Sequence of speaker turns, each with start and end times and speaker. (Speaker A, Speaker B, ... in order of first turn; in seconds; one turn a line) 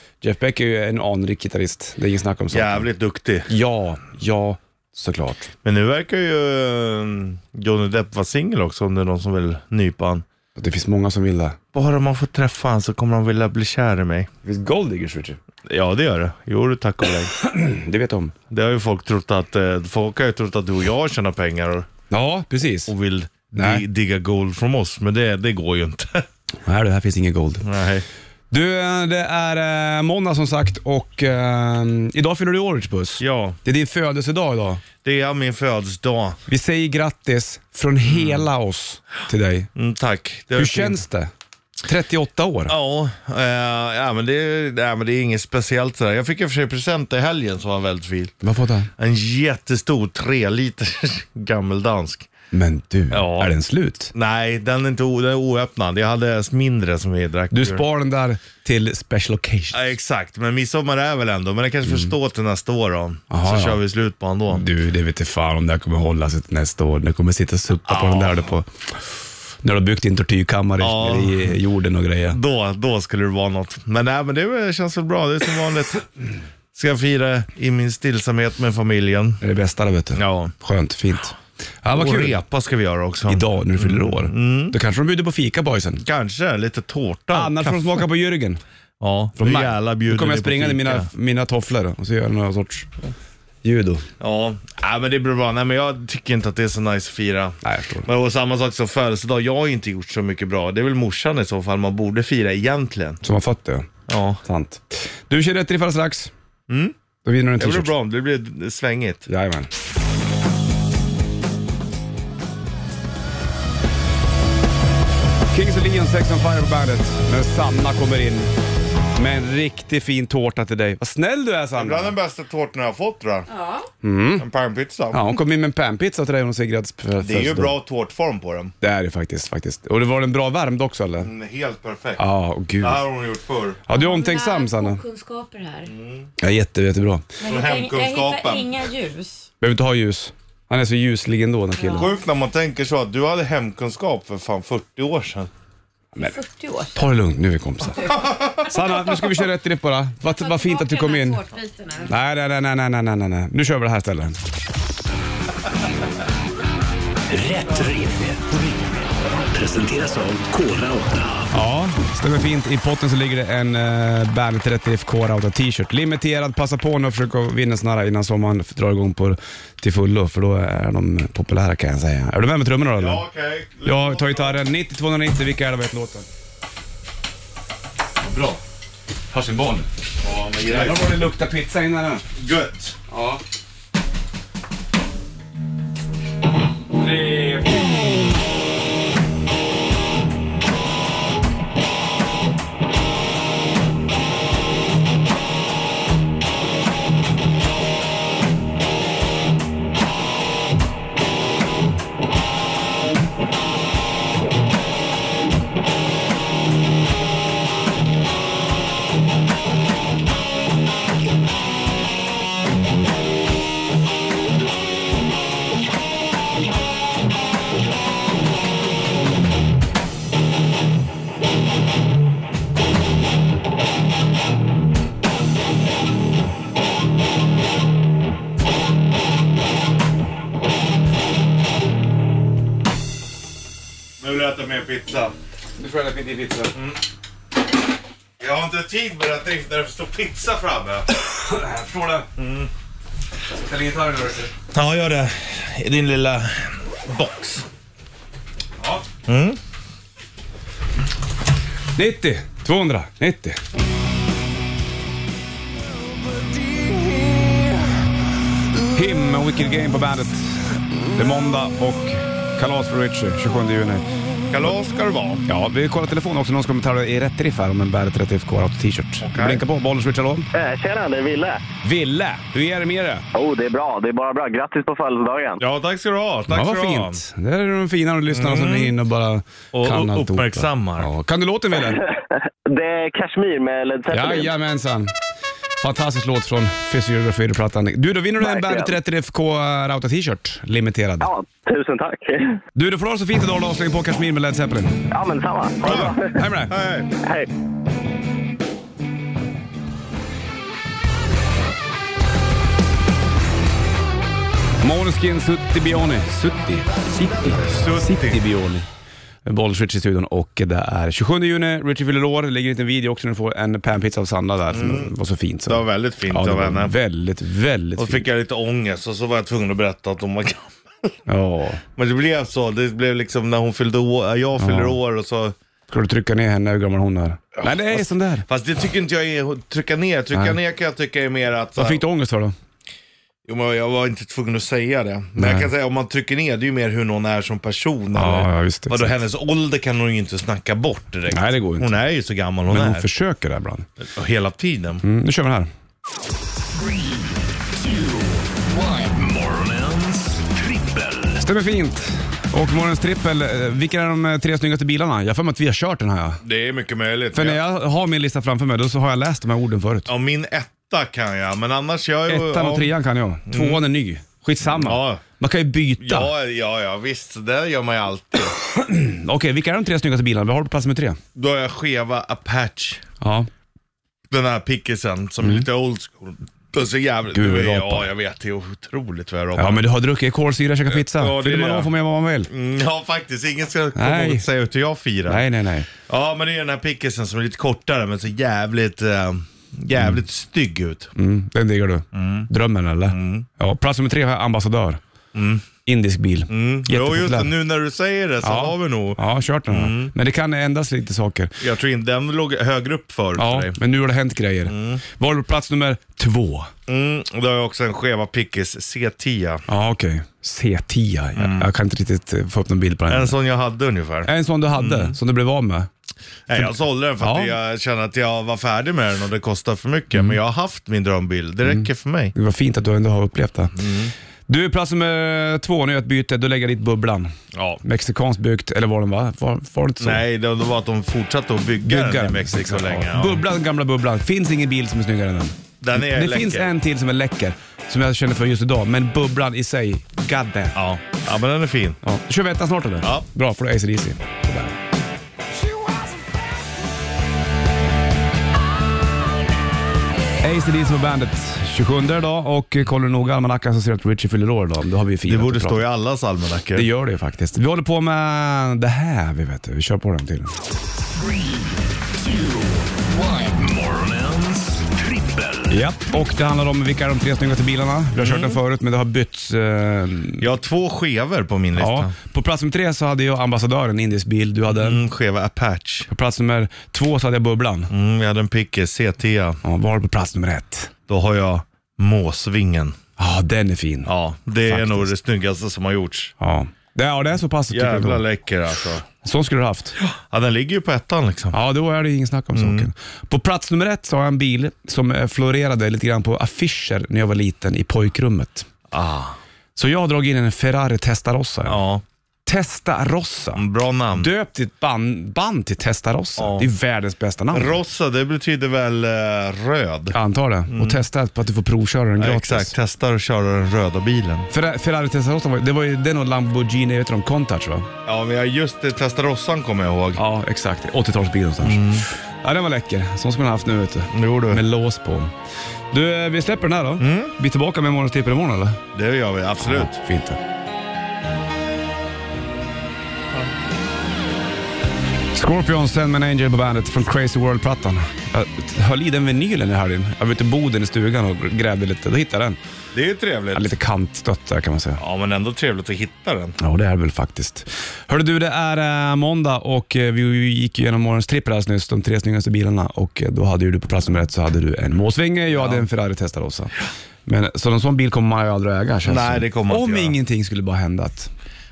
Speaker A: 0.2-2.9
Speaker B: 2.5-3.5
Speaker A: 3.5-5.5
Speaker B: 5.6-10.2
Speaker A: 10.6-11.6
Speaker B: 11.7-14.3
Speaker A: 14.4-15.4
Speaker B: 15.7-17.3
Speaker A: 17.4-18.3
Speaker B: 18.5-21.9
Speaker A: 22.1-22.9
Speaker B: 22.9-26.3
Speaker A: 23.6-23.9
Speaker A: 26.6-27.6
Speaker B: 27.6-28.1
Speaker A: 28.5-34.8
Speaker B: 33.2-33.6
Speaker B: 35.0-36.4
Speaker A: 36.5-39.7
Speaker B: 38.0-38.5
Speaker B: 39.8-41.0
Speaker A: 40.5-41.3
Speaker A: 41.9-42.8
Speaker B: 42.7-48.4
Speaker A: 48.4-48.9
Speaker B: 49.0-52.3
Speaker A: 52.5-54.1
Speaker B: 53.1-53.5
Speaker B: 54.1-57.9
Speaker A: 57.5-59.9
Speaker B: 59.7-64.7
Speaker A: 61.9-62.1
Speaker A: 63.3-63.8
Speaker A: 64.5-68.7
Speaker B: 67.9-68.5
Speaker A: 69.6-72.4
Speaker B: 70.8-71.6
Speaker B: 72.3-76.1
Speaker B: 76.7-79.4
Speaker A: 79.4-82.4
Speaker B: 80.2-80.5
Speaker B: 81.9-84.8
Speaker A: 83.3-86.0
Speaker B: 86.0-88.0
Speaker A: 87.3-88.6
Speaker B: 89.0-91.1
Speaker A: 89.4-92.9
Speaker A: 93.6-94.1
Speaker B: 94.2-103.2
Speaker A: 97.6-98.1
Speaker A: 103.2-103.9
Speaker B: 104.1-104.4
Speaker A: 104.4-106.3
Speaker B: 106.7-107.0
Speaker A: 107.2-107.9
Speaker B: 107.6-109.3
Speaker A: 109.3-109.7
Speaker A: 115.5-118.5
Speaker A: 119.2-122.2
Speaker B: 121.8-123.5
Speaker C: 123.5-123.9
Speaker A: 124.0-124.5
Speaker B: 124.4-125.4
Speaker A: 125.1-127.8
Speaker B: 127.2-128.7
Speaker A: 128.8-131.3
Speaker B: 131.2-132.2
Speaker A: 132.2-133.0
Speaker B: 132.8-133.8
Speaker A: 133.9-135.0
Speaker C: 133.9-135.9
Speaker B: 135.9-136.3
Speaker A: 136.4-137.2
Speaker C: 137.4-139.5
Speaker B: 137.4-138.8
Speaker A: 139.6-142.1
Speaker C: 141.8-142.1
Speaker B: 141.9-145.5
Speaker C: 146.2-147.0
Speaker A: 146.9-151.4
Speaker B: 148.2-148.7
Speaker C: 150.3-152.1
Speaker A: 152.1-154.4
Speaker D: 157.3-158.9
Speaker D: 159.5-161.6
Speaker A: 161.5-173.2
Speaker B: 172.9-174.6
Speaker A: 173.8-176.3
Speaker A: 178.2-178.6
Speaker A: 179.3-179.9
Speaker B: 180.2-181.3
Speaker A: 180.7-182.3
Speaker B: 182.3-183.0
Speaker A: 183.1-183.4
Speaker A: 186.9-188.0
Speaker B: 234.2-235.3
Speaker A: 235.8-236.8
Speaker B: 236.7-237.0
Speaker B: 238.4-241.1
Speaker A: 241.1-242.3
Speaker B: 242.4-242.7
Speaker A: 243.5-244.5
Speaker B: 244.7-247.7
Speaker B: 249.3-249.6
Speaker A: 251.9-253.6
Speaker A: 258.9-264.1
Speaker B: 264.5-265.5
Speaker A: 265.5-270.5
Speaker B: 269.2-269.6
Speaker E: 270.5-271.6
Speaker A: 271.8-273.2
Speaker E: 273.4-275.6
Speaker B: 275.6-277.2
Speaker A: 276.5-282.1
Speaker B: 278.3-279.0
Speaker B: 279.7-281.1
Speaker E: 281.9-284.5
Speaker A: 284.1-285.1
Speaker A: 285.8-291.3
Speaker E: 288.4-288.9
Speaker E: 291.2-292.6
Speaker A: 292.8-295.0
Speaker E: 295.1-296.3
Speaker A: 295.8-296.7
Speaker B: 296.7-297.1
Speaker E: 297.2-297.5
Speaker A: 304.8-308.9
Speaker B: 307.4-308.4
Speaker A: 309.4-318.3
Speaker B: 314.7-315.1
Speaker B: 315.7-317.0
Speaker B: 318.0-321.1
Speaker A: 321.3-321.8
Speaker B: 322.0-325.6
Speaker A: 324.6-325.0
Speaker A: 325.9-328.5
Speaker B: 327.6-332.0
Speaker A: 331.8-332.6
Speaker B: 333.5-343.1
Speaker A: 335.4-335.7
Speaker A: 338.1-339.2
Speaker A: 341.3-341.9
Speaker A: 342.7-343.9
Speaker B: 344.0-345.0
Speaker A: 345.0-345.7
Speaker D: 347.8-351.4
Speaker A: 351.4-356.4
Speaker B: 356.4-357.6
Speaker A: 357.3-360.1
Speaker B: 360.1-362.9
Speaker A: 362.3-366.3
Speaker B: 363.5-363.8
Speaker B: 364.7-365.2
Speaker B: 366.0-368.6
Speaker A: 368.7-371.2
Speaker B: 371.4-373.0
Speaker A: 373.2-373.5
Speaker B: 374.3-379.9
Speaker A: 377.3-378.1
Speaker A: 379.6-382.5
Speaker B: 380.9-381.9
Speaker B: 382.5-385.4
Speaker A: 384.0-384.4
Speaker A: 385.3-385.9
Speaker B: 386.0-391.1
Speaker A: 391.2-395.0
Speaker B: 392.1-392.5
Speaker B: 393.1-393.5
Speaker B: 395.3-395.7
Speaker A: 395.9-397.5
Speaker B: 396.5-400.1
Speaker A: 398.4-401.6
Speaker B: 401.6-403.8
Speaker A: 403.4-406.7
Speaker B: 404.7-405.0
Speaker B: 406.9-409.6
Speaker A: 409.7-413.4
Speaker B: 411.4-411.7
Speaker B: 413.1-415.2
Speaker A: 414.3-415.9
Speaker B: 416.5-422.3
Speaker A: 416.6-417.6
Speaker A: 420.1-420.4
Speaker A: 421.7-423.8
Speaker B: 423.8-424.1
Speaker A: 424.5-430.2
Speaker B: 427.5-427.8
Speaker B: 430.0-433.4
Speaker A: 431.8-440.8
Speaker B: 435.8-436.7
Speaker B: 440.8-442.0
Speaker A: 442.0-444.8
Speaker A: 450.4-455.8
Speaker B: 455.2-456.9
Speaker A: 456.8-460.6
Speaker D: 462.2-465.8
Speaker A: 465.7-470.5
Speaker B: 468.2-468.6
Speaker B: 470.4-472.1
Speaker A: 471.8-475.0
Speaker B: 474.7-476.1
Speaker A: 476.1-477.9
Speaker B: 477.9-479.6
Speaker A: 479.6-480.9
Speaker B: 481.1-483.0
Speaker A: 483.2-485.1
Speaker B: 484.1-486.3
Speaker A: 486.4-488.2
Speaker B: 487.7-489.1
Speaker A: 489.2-490.0
Speaker B: 490.0-491.6
Speaker A: 491.5-498.7
Speaker B: 492.5-492.9
Speaker B: 498.9-499.4
Speaker A: 499.8-501.8
Speaker B: 501.6-502.0
Speaker A: 502.5-503.6
Speaker B: 503.6-504.3
Speaker A: 504.1-507.8
Speaker B: 506.4-506.7
Speaker B: 507.5-510.2
Speaker A: 510.1-512.7
Speaker B: 510.7-511.0
Speaker B: 512.2-514.5
Speaker A: 514.5-517.9
Speaker B: 518.1-520.2
Speaker A: 520.2-525.3
Speaker B: 521.6-522.1
Speaker B: 524.1-524.6
Speaker A: 525.9-528.8
Speaker B: 527.0-527.3
Speaker B: 528.9-530.0
Speaker A: 529.6-530.4
Speaker A: 535.3-542.6
Speaker B: 542.9-543.7
Speaker A: 543.5-545.0
Speaker B: 545.0-546.6
Speaker A: 546.6-556.8
Speaker B: 555.5-555.9
Speaker A: 557.3-561.3
Speaker B: 559.0-560.2